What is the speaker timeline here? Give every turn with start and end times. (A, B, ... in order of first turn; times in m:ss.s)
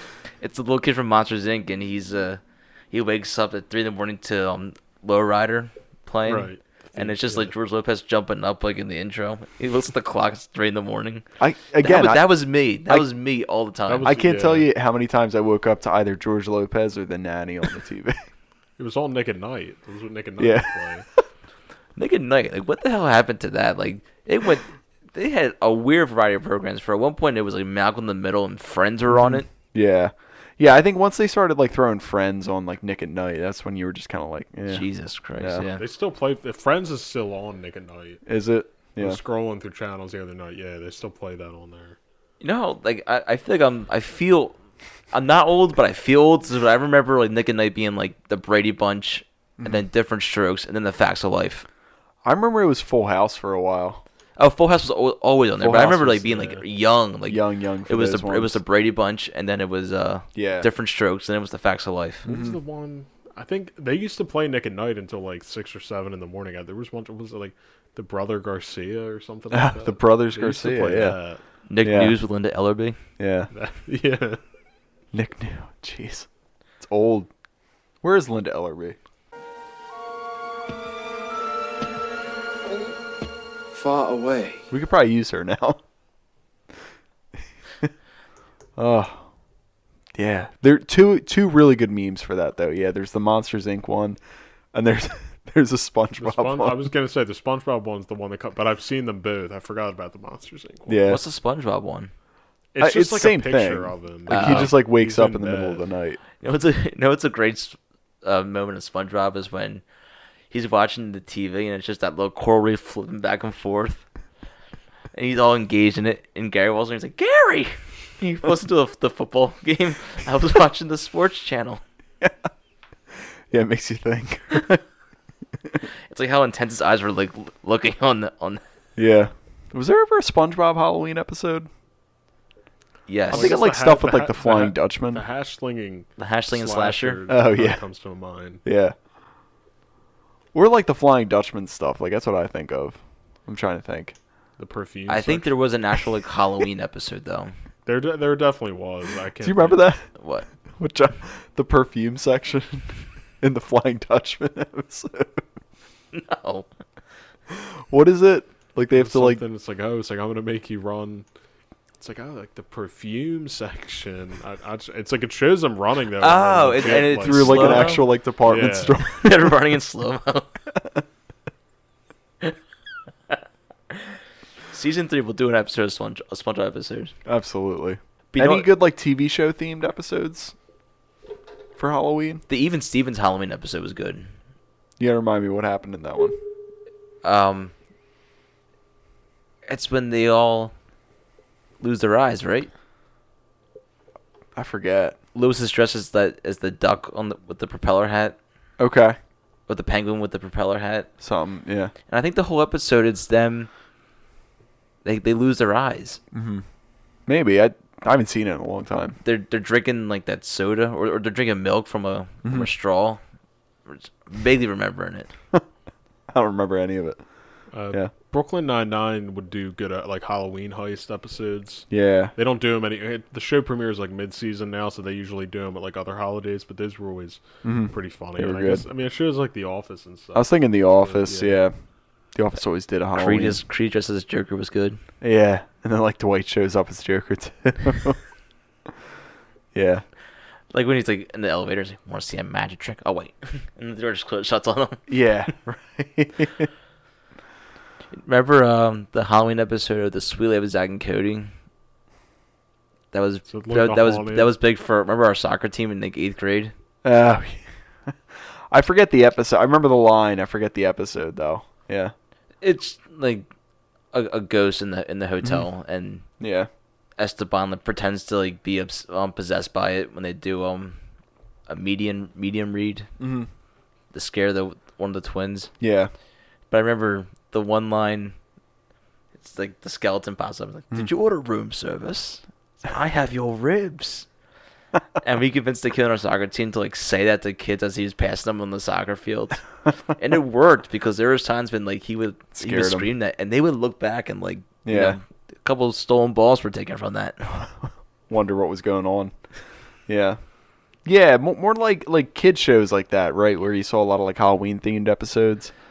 0:00.4-0:11.2 A
0:06.2-0:07.5 B
0:11.4-0:13.1 C
0:11.8-0:14.1 A
0:13.9-0:14.7 B
0:14.0-0:18.2 C
0:18.8-0:21.1 B
0:20.4-0:21.2 C
0:22.0-0:29.5 A
0:29.1-0:35.6 C
0:34.7-0:35.8 A
0:35.8-0:38.3 B
0:38.2-0:39.2 C
0:38.9-0:42.0 B
0:42.4-0:44.6 A
0:45.1-0:51.6 A
0:52.2-0:54.0 C
0:54.4-1:02.2 A
0:55.6-0:56.4 C
0:56.3-0:56.6 B
0:57.2-0:58.6 C
1:00.3-1:00.7 C
1:02.2-1:11.4 B
1:02.2-1:02.6 C
1:09.5-1:11.2 C
1:11.7-1:13.0 A
1:11.8-1:12.2 C
1:13.2-1:13.5 C
1:13.5-1:14.4 B
1:15.1-1:16.3 C
1:16.8-1:17.3 C
1:18.0-1:19.0 C
1:23.7-1:24.6 A
1:24.7-1:25.8 C
1:28.8-1:29.3 C
1:30.1-1:34.2 C
1:34.7-1:36.9 C
1:36.2-1:41.0 B
1:40.9-1:41.2 C
1:41.0-1:42.1 A
1:42.7-1:45.8 B
1:42.8-1:46.2 C
1:44.3-1:44.8 A
1:46.4-1:49.8 A
1:50.5-1:54.0 A
1:55.1-2:01.8 A
2:03.5-2:04.8 C
2:06.1-2:08.6 A
2:09.0-2:11.7 C
2:13.1-2:13.6 A
2:13.3-2:15.2 C
2:13.3-2:18.6 B
2:16.2-2:17.2 A
2:17.3-2:17.8 C
2:18.6-2:18.9 C
2:20.5-2:24.1 C
2:24.6-2:25.6 B
2:25.1-2:27.5 A
2:27.8-2:29.9 B
2:29.4-2:30.1 C
2:30.2-2:30.4 A
2:30.8-2:35.4 C
2:36.1-2:36.7 A
2:37.5-2:39.4 C
2:38.9-2:41.2 B
2:42.0-2:49.0 B
2:46.2-2:48.0 A
2:46.9-2:49.6 C
2:49.2-2:50.6 A
2:54.7-2:57.1 A
2:57.2-3:00.5 C
2:58.3-2:58.7 A
3:01.8-3:02.4 C
3:02.5-3:04.3 A
3:05.0-3:06.4 C
3:07.2-3:07.7 A
3:09.7-3:10.7 A
3:11.8-3:12.7 A
3:14.5-3:15.2 C
3:15.3-3:18.4 A
3:18.8-3:19.2 C
3:19.7-3:21.1 A
3:21.2-3:21.9 C
3:22.1-3:23.7 A
3:25.0-3:26.2 A
3:26.3-3:26.6 C
3:27.3-3:29.2 C
3:29.2-3:33.2 A
3:32.4-3:32.7 C
3:33.9-3:35.3 A
3:36.3-3:37.2 C
3:37.7-3:51.6 B
3:41.9-3:42.3 C
3:47.6-3:48.8 C
3:50.3-3:51.7 C
3:52.3-3:53.6 C
3:53.2-3:55.0 A
3:55.2-3:58.2 C
3:59.7-4:00.0 C
4:00.7-4:05.0 A
4:05.1-4:06.7 C
4:08.1-4:11.5 A
4:13.1-4:16.7 A
4:13.5-4:14.5 B
4:17.0-4:22.1 C
4:22.6-4:23.5 A
4:24.1-4:26.2 A
4:26.4-4:26.7 C
4:27.2-4:31.0 A
4:31.7-4:33.1 A
4:33.2-4:33.5 C
4:34.1-4:35.7 A
4:35.8-4:36.1 C
4:36.7-4:38.3 A
4:39.3-4:44.3 A
4:45.2-4:57.6 A
4:52.6-4:53.1 C
4:54.8-4:55.2 C
4:58.3-4:59.3 C
5:00.1-5:00.4 C
5:01.0-5:05.7 C